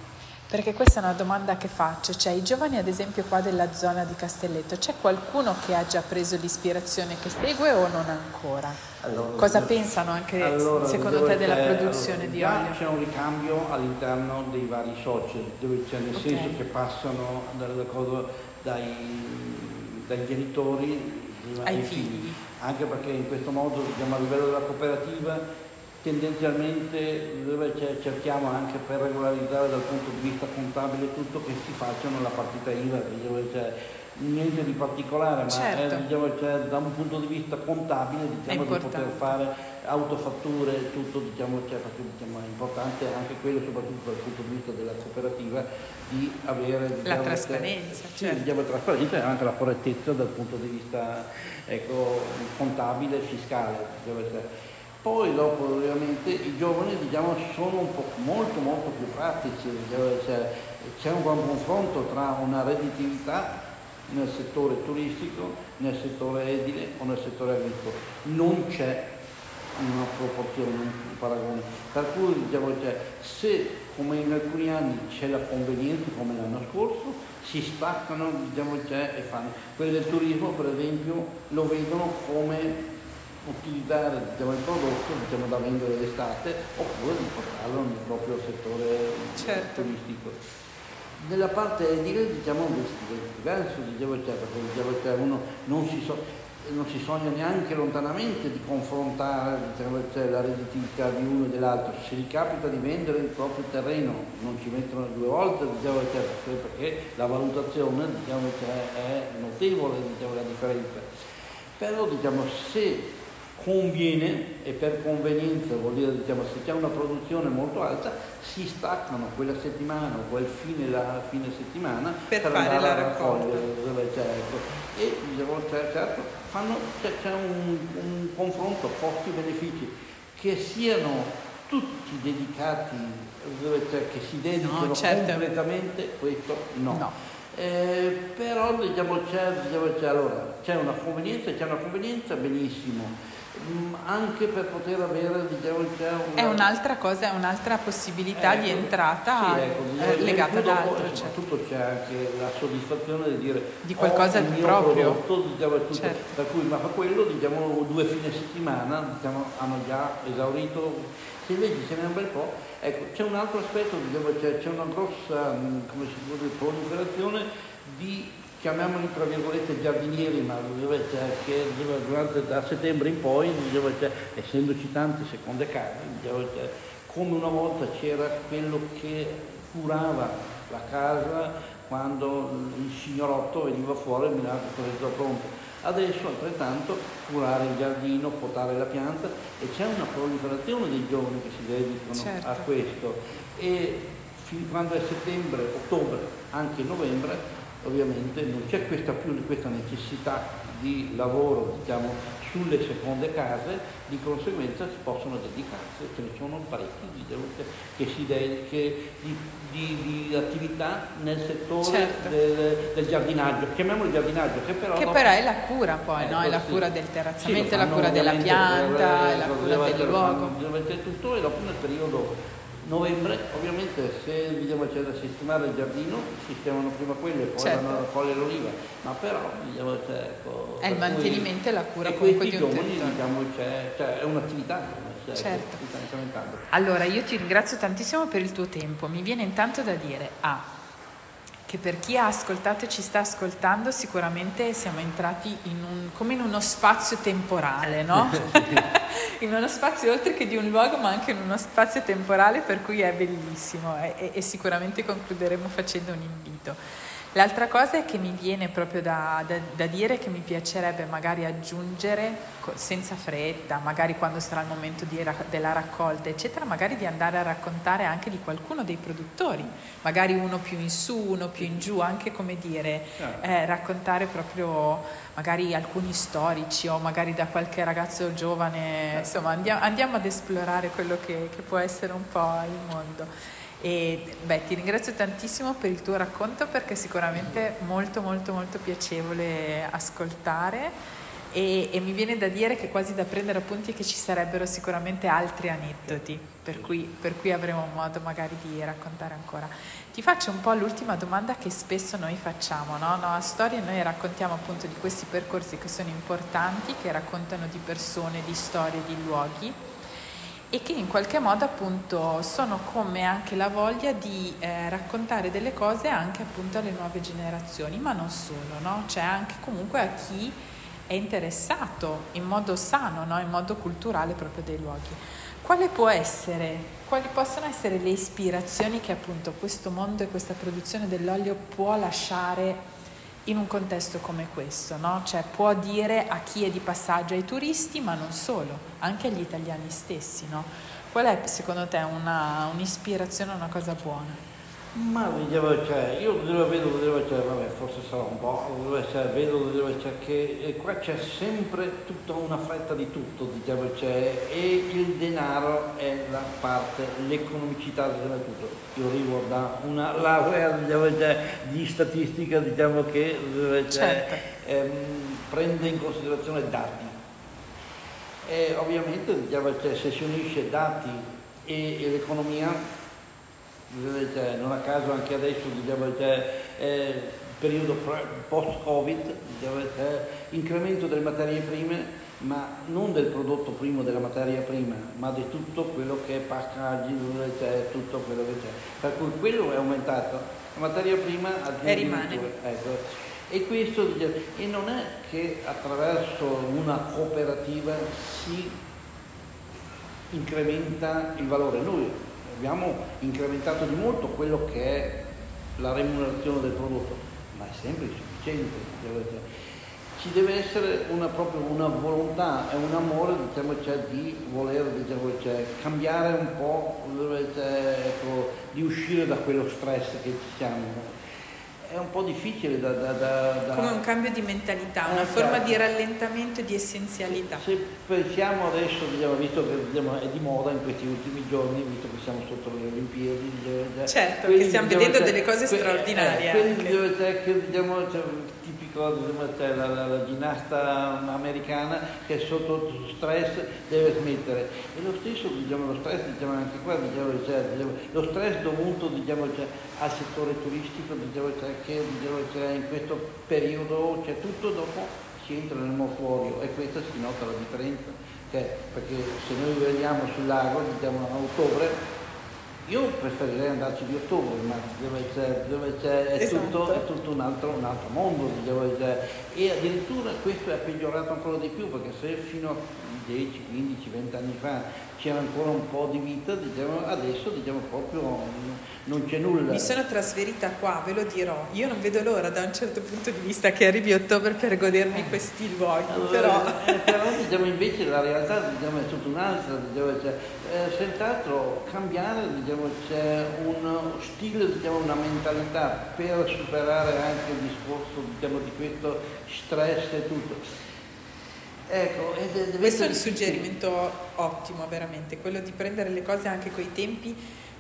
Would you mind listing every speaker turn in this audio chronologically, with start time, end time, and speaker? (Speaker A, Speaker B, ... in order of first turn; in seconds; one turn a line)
Speaker A: 0.5-8.8
Speaker B: 9.0-25.4
Speaker A: 9.4-12.8
Speaker A: 16.1-16.6
Speaker A: 21.6-22.4
Speaker B: 26.0-54.5
Speaker A: 35.5-36.0
Speaker A: 38.5-39.3
Speaker A: 47.0-48.5
Speaker B: 55.0-63.6
Speaker B: 64.1-69.0
Speaker B: 69.8-82.8
Speaker B: 83.4-90.4
Speaker A: 89.4-89.9
Speaker B: 91.2-111.1
Speaker B: 111.8-146.7
Speaker A: 122.3-123.7
Speaker A: 134.6-135.4
Speaker A: 146.4-151.4
Speaker B: 148.3-215.3
Speaker A: 153.8-155.2
Speaker A: 155.9-156.3
Speaker A: 192.1-192.7
Speaker A: 211.8-212.3
Speaker A: 215.0-220.6
Speaker B: 216.2-216.9
Speaker B: 217.4-231.5
Speaker A: 227.6-228.0
Speaker A: 230.8-233.2
Speaker B: 232.0-236.7
Speaker A: 235.4-235.8
Speaker A: 236.7-240.7
Speaker A: 241.7-256.8
Speaker B: 248.2-248.8
Speaker A: 257.3-283.3
Speaker B: 273.2-273.5
Speaker B: 279.1-279.4
Speaker A: 283.8-290.9
Speaker A: 291.5-309.8
Speaker B: 296.7-297.0
Speaker A: 310.7-320.6
Speaker A: 321.1-332.8
Speaker A: 333.5-344.4
Speaker B: 344.9-367.2
Speaker A: 363.9-364.4
Speaker B: 368.4-372.8
Speaker B: 373.9-398.8
Speaker A: 391.8-392.5
Speaker B: 400.3-405.2
Speaker B: 405.8-409.4
Speaker B: 410.2-421.2
Speaker B: 421.9-424.0
Speaker A: 423.7-427.6
Speaker B: 425.1-425.8
Speaker B: 427.3-462.0
Speaker A: 434.1-437.0
Speaker B: 462.9-480.0
Speaker A: 466.4-467.0
Speaker A: 479.7-487.2
Speaker B: 486.1-500.6
Speaker B: 501.9-503.7
Speaker A: 502.8-507.4